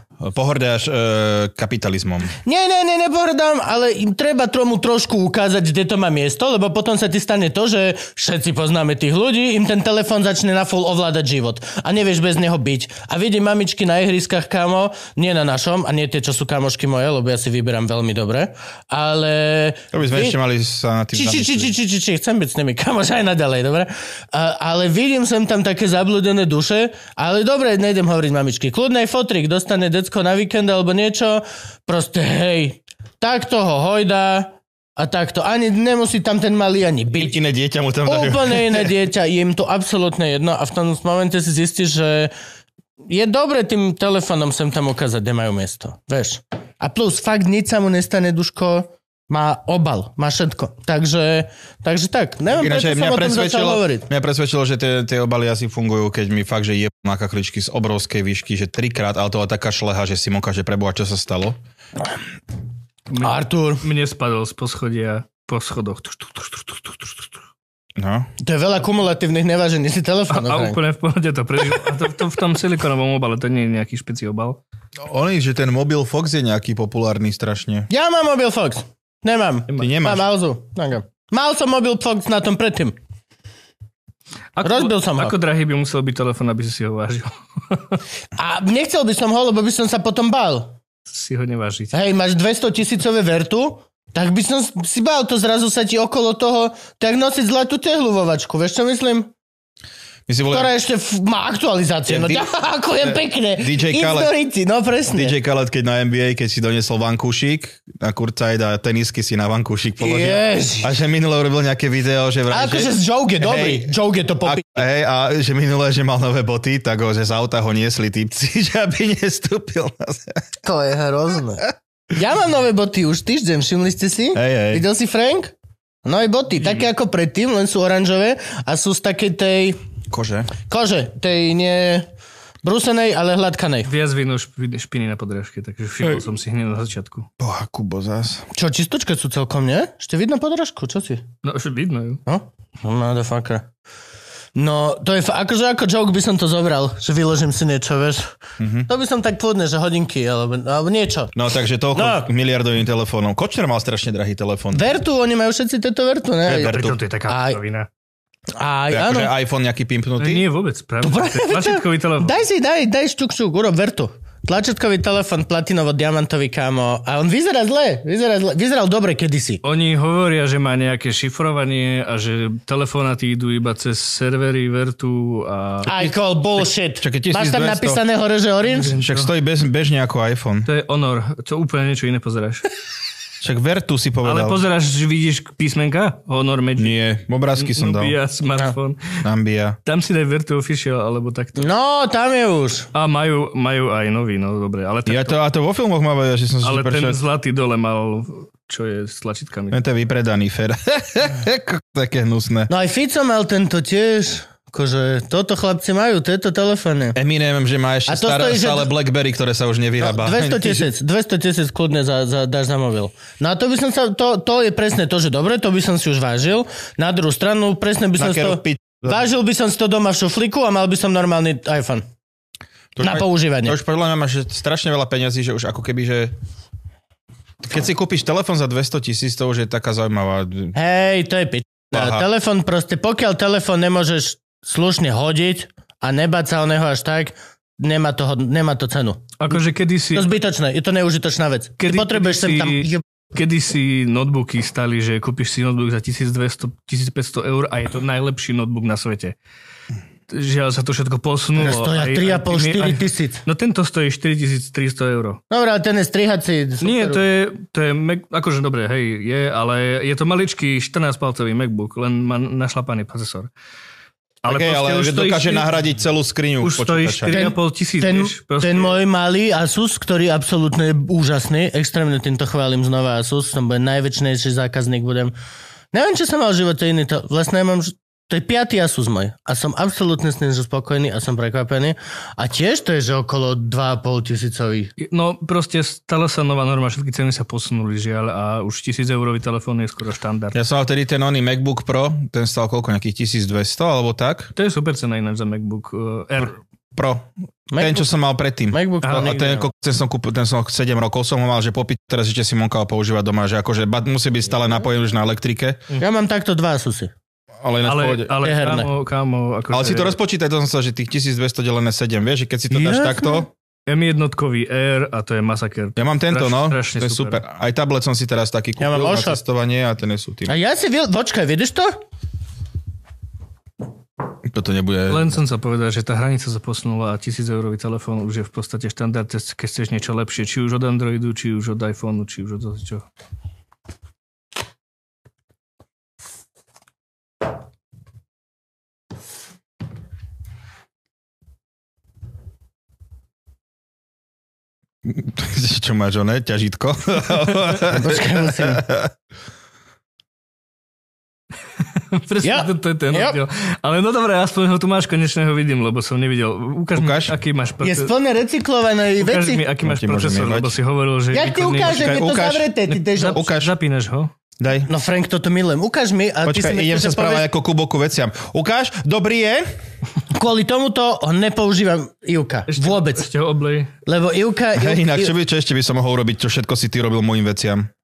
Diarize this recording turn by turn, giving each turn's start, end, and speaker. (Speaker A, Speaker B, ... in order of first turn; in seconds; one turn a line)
Speaker A: 0.2-2.3
Speaker B: 2.4-20.4
Speaker A: 19.9-21.7
Speaker B: 21.1-37.4
Speaker A: 37.1-38.9
Speaker B: 38.0-42.3
Speaker B: 43.1-54.1
Speaker A: 52.5-61.6
Speaker C: 63.1-67.3
Speaker B: 63.2-63.8
Speaker A: 68.0-68.3
Speaker B: 68.4-70.8
Speaker C: 70.3-74.6
Speaker A: 75.0-77.9
Speaker B: 77.9-83.0
Speaker A: 79.7-80.2
Speaker C: 84.6-88.0
Speaker B: 84.6-85.3
Speaker B: 88.4-90.8
Speaker C: 91.1-91.9
Speaker B: 91.9-99.3
Speaker A: 100.3-100.7
Speaker B: 100.5-105.3
Speaker A: 102.1-102.4
Speaker A: 103.0-104.3
Speaker A: 105.1-120.4
Speaker B: 110.0-111.0
Speaker B: 112.5-114.8
Speaker B: 120.6-125.5
Speaker A: 124.3-124.8
Speaker B: 126.0-129.8
Speaker A: 130.1-130.6
Speaker B: 130.7-132.1
Speaker B: 132.6-133.9
Speaker C: 133.8-137.3
Speaker A: 137.4-138.4
Speaker B: 138.5-141.2
Speaker C: 141.4-142.2
Speaker B: 142.2-143.7
Speaker B: 144.6-148.4
Speaker A: 148.6-148.9
Speaker B: 148.9-151.3
Speaker A: 151.3-154.8
Speaker B: 151.9-152.3
Speaker B: 154.7-157.6
Speaker A: 156.4-157.0
Speaker C: 156.6-157.9
Speaker B: 158.6-159.3
Speaker A: 158.9-160.4
Speaker C: 160.2-162.4
Speaker B: 161.0-169.6
Speaker C: 169.6-176.0
Speaker B: 175.8-178.9
Speaker A: 177.0-178.0
Speaker C: 178.7-179.3
Speaker A: 178.9-180.7
Speaker C: 180.7-182.7
Speaker A: 183.4-184.6
Speaker C: 184.2-186.9
Speaker A: 186.8-188.2
Speaker C: 187.6-189.2
Speaker A: 189.2-189.8
Speaker C: 189.8-191.7
Speaker B: 191.6-192.9
Speaker C: 192.9-195.4
Speaker A: 195.1-197.2
Speaker C: 196.6-199.8
Speaker A: 199.7-202.7
Speaker B: 202.7-207.2
Speaker A: 207.2-210.9
Speaker B: 208.1-208.9
Speaker B: 210.0-222.1
Speaker A: 218.2-219.2
Speaker A: 222.9-226.3
Speaker B: 223.0-223.8
Speaker A: 227.6-230.7
Speaker B: 230.7-239.6
Speaker A: 231.9-232.2
Speaker C: 239.4-240.3
Speaker B: 240.1-243.0
Speaker C: 241.8-249.3
Speaker C: 250.3-255.4
Speaker B: 251.6-253.4
Speaker B: 255.5-257.2
Speaker C: 256.8-263.5
Speaker C: 264.4-265.7
Speaker A: 264.5-267.5
Speaker C: 266.6-269.0
Speaker B: 267.3-275.3
Speaker B: 275.9-284.9
Speaker C: 285.0-290.6
Speaker A: 290.5-294.5
Speaker C: 294.6-296.6
Speaker A: 296.9-305.8
Speaker B: 297.7-298.1
Speaker B: 298.7-299.7
Speaker C: 299.0-299.4
Speaker B: 306.0-307.1
Speaker A: 307.6-308.4
Speaker C: 307.8-310.2
Speaker B: 308.4-308.9
Speaker A: 309.7-313.5
Speaker B: 312.7-313.5
Speaker C: 313.9-317.4
Speaker A: 316.0-320.5
Speaker B: 318.8-319.4
Speaker B: 320.4-321.9
Speaker A: 324.4-325.4
Speaker C: 325.1-333.1
Speaker A: 345.0-349.1
Speaker B: 347.9-348.8
Speaker C: 352.1-358.1
Speaker B: 352.4-353.4
Speaker A: 356.9-357.3
Speaker B: 357.8-359.6
Speaker C: 359.2-362.3
Speaker A: 359.8-360.7
Speaker B: 361.3-363.4
Speaker A: 361.8-362.7
Speaker C: 362.9-364.3
Speaker A: 363.3-363.7
Speaker A: 364.6-364.9
Speaker B: 364.9-367.5
Speaker A: 366.4-369.7
Speaker B: 370.3-373.3
Speaker C: 372.7-373.9
Speaker B: 374.1-375.3
Speaker A: 374.8-377.9